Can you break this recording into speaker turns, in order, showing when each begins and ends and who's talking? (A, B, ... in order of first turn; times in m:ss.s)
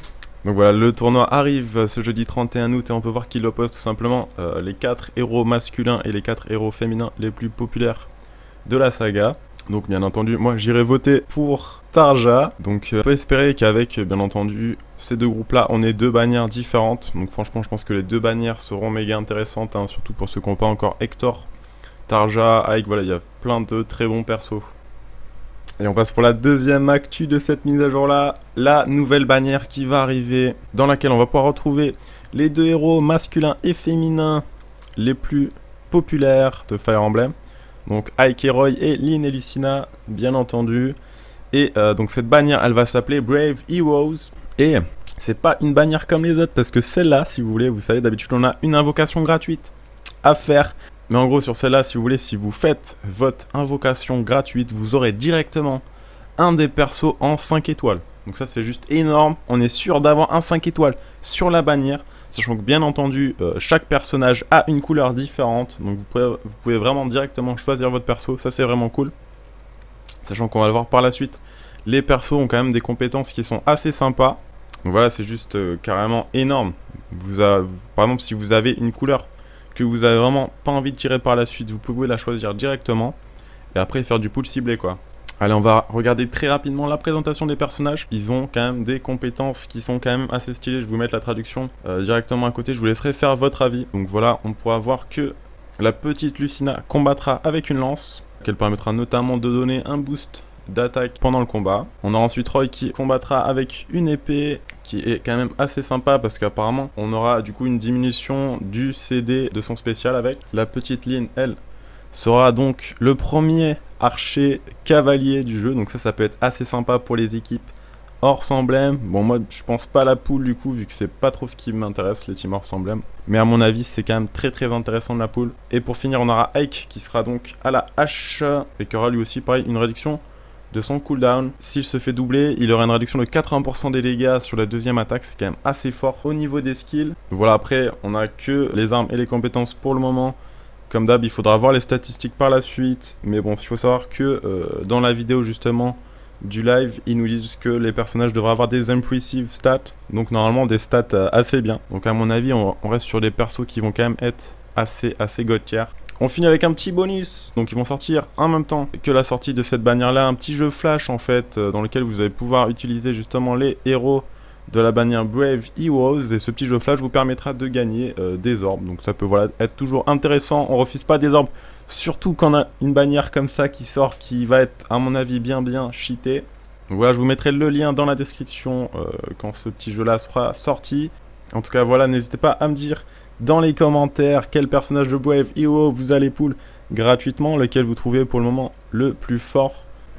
0:00.4-0:08.1 A
0:08.6-0:21.5 A
0:22.1-0:24.7 A
0:25.8-0:34.4 A
0:35.0-0:37.3 A
0:37.8-0:41.0 A
0:41.5-0:55.8 A
0:56.4-1:09.1 A
1:10.2-1:23.2 A
1:23.7-1:51.6 A
1:52.1-1:57.7 A
1:58.2-2:20.4 A
2:20.9-3:09.8 A